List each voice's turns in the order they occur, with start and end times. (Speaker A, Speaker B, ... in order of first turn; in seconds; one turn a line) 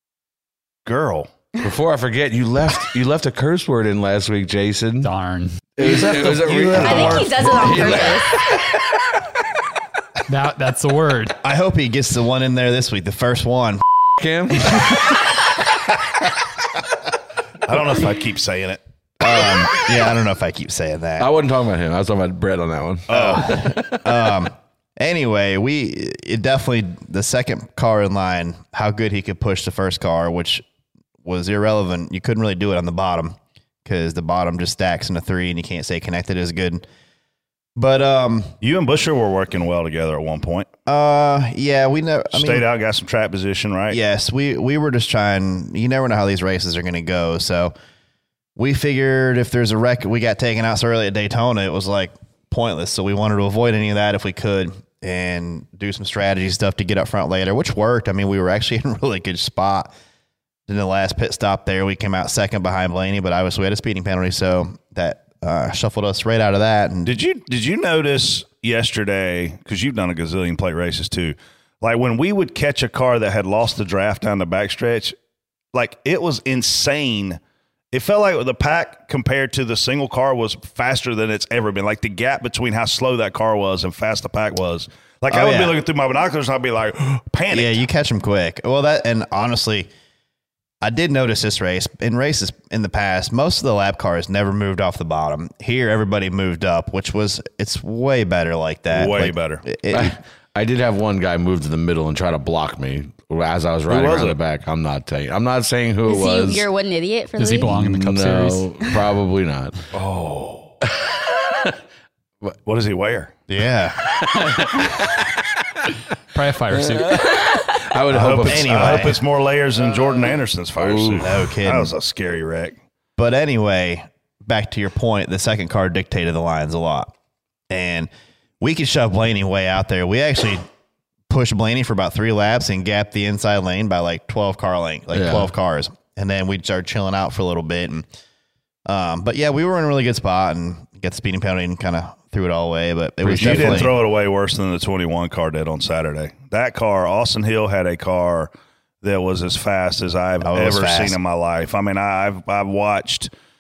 Speaker A: 0.9-1.3
Speaker B: 1.6-5.1
Speaker C: 5.0-5.7
Speaker B: 5.8-8.7
Speaker A: 6.2-7.2
Speaker D: 6.7-8.5
Speaker C: 10.3-11.3
Speaker E: 11.4-13.8
Speaker B: 14.2-15.2
Speaker A: 17.7-18.8
Speaker E: 19.2-21.3
Speaker B: 21.2-24.1
Speaker A: 23.1-23.5
Speaker E: 23.1-30.6
Speaker E: 31.2-36.8
Speaker E: 37.8-38.5
Speaker A: 38.6-40.7
Speaker E: 40.9-42.6
Speaker A: 42.3-44.0
Speaker E: 43.9-47.7
Speaker E: 48.6-59.9
Speaker E: 60.7-67.1
Speaker A: 67.1-75.2
Speaker A: 75.7-77.4
Speaker A: 77.9-87.8
Speaker E: 85.3-85.8
Speaker E: 87.5-89.9
Speaker E: 90.8-100.2
Speaker A: 98.9-99.6
Speaker B: 99.9-106.7
Speaker A: 103.9-104.4
Speaker D: 106.1-107.8
Speaker C: 107.4-108.7
Speaker B: 107.8-109.8
Speaker A: 109.9-110.8
Speaker B: 110.9-111.7
Speaker A: 112.7-113.3
Speaker E: 113.5-114.0
Speaker B: 114.1-115.3
Speaker C: 116.3-117.4
Speaker B: 116.7-119.2
Speaker A: 118.1-122.8
Speaker E: 118.4-119.2
Speaker B: 120.8-121.4
Speaker E: 121.2-121.9
Speaker E: 123.2-127.1
Speaker E: 127.7-128.1
Speaker E: 128.6-130.7
Speaker E: 131.3-138.1
Speaker B: 135.2-135.5
Speaker E: 138.9-144.0
Speaker B: 143.2-143.9
Speaker A: 143.3-148.5
Speaker A: 149.0-153.3
Speaker E: 150.4-151.2